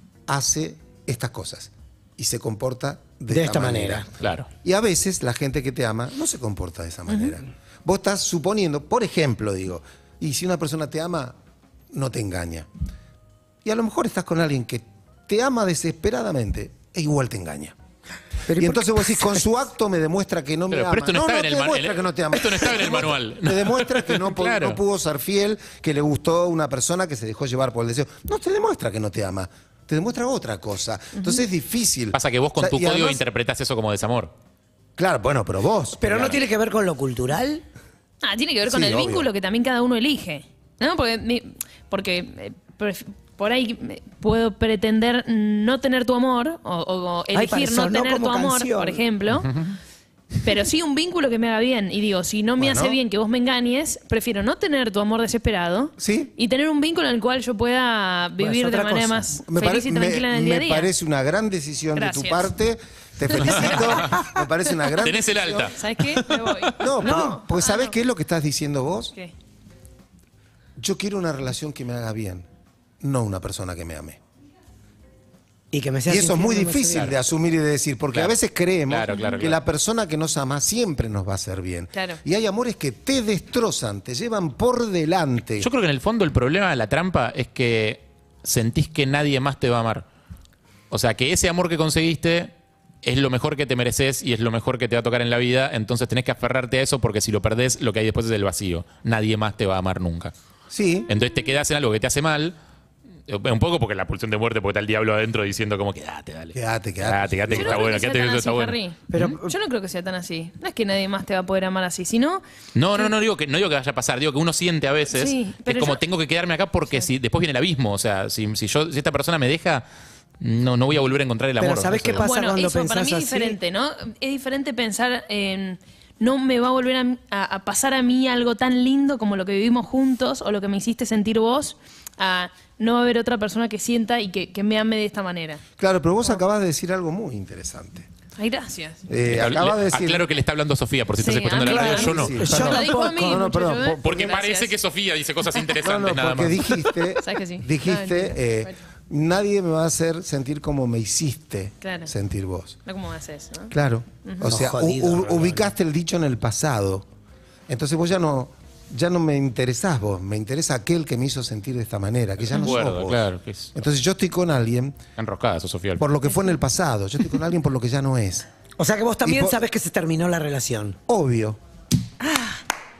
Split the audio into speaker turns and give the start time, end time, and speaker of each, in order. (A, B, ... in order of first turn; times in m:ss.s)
0:00.3-0:04.1 A
0:03.3-0:04.1 B
0:04.2-0:04.5 C
0:04.6-0:11.4 A
0:11.9-0:12.7 A
0:13.6-0:17.8 A
0:18.5-0:19.4 B
0:18.6-0:33.2 A
0:20.7-0:24.8 C
0:31.2-0:31.4 D
0:32.1-0:34.3 C
0:35.0-0:36.4 A
0:36.0-0:37.6 B
0:38.2-0:49.6 D
0:38.7-0:39.3 A
0:47.3-0:49.0 B
0:49.4-0:49.8 C
0:50.4-1:00.9 D
0:52.6-0:53.0 A
0:56.0-0:56.3 A
0:58.4-0:59.3 B
0:59.3-1:05.7 A
1:02.0-1:02.5 D
1:03.4-1:04.3 C
1:04.1-1:04.4 B
1:05.0-1:06.5 C
1:05.8-1:07.9 D
1:06.8-1:09.1 A
1:07.0-1:07.4 B
1:10.8-1:12.5 A
1:13.0-1:14.2 A
1:15.7-1:17.1 B
1:16.1-1:25.7 A
1:18.9-1:19.6 C
1:19.1-1:19.5 D
1:21.9-1:22.2 D
1:25.6-1:30.1 C
1:30.9-1:40.3 C
1:40.7-1:41.1 A
1:41.1-1:42.6 C
1:43.3-1:49.4 C
1:46.5-1:47.8 A
1:47.5-1:52.4 D
1:49.1-1:49.5 B
1:52.8-1:59.8 C
1:55.1-1:56.0 D
2:00.4-2:02.3 C
2:01.6-2:03.6 B
2:02.2-2:15.6 D
2:15.8-2:18.1 A
2:18.4-2:19.0 D
2:19.1-2:20.3 A
2:19.2-2:22.4 C
2:21.2-2:24.7 D
2:21.6-2:23.5 B
2:21.7-2:24.4 A
2:24.0-2:26.8 C
2:25.8-2:32.8 A
2:27.2-2:28.8 D
2:31.8-2:32.1 D
2:32.9-2:33.7 D
2:33.7-2:37.1 A
2:34.2-2:34.6 D
2:34.5-2:35.5 B
2:37.7-2:45.0 A
2:42.5-2:43.8 C
2:45.2-2:46.1 C
2:46.0-2:48.5 A
2:48.8-2:51.0 B
2:49.2-2:49.6 A
2:51.1-2:51.6 A
2:52.2-2:52.6 B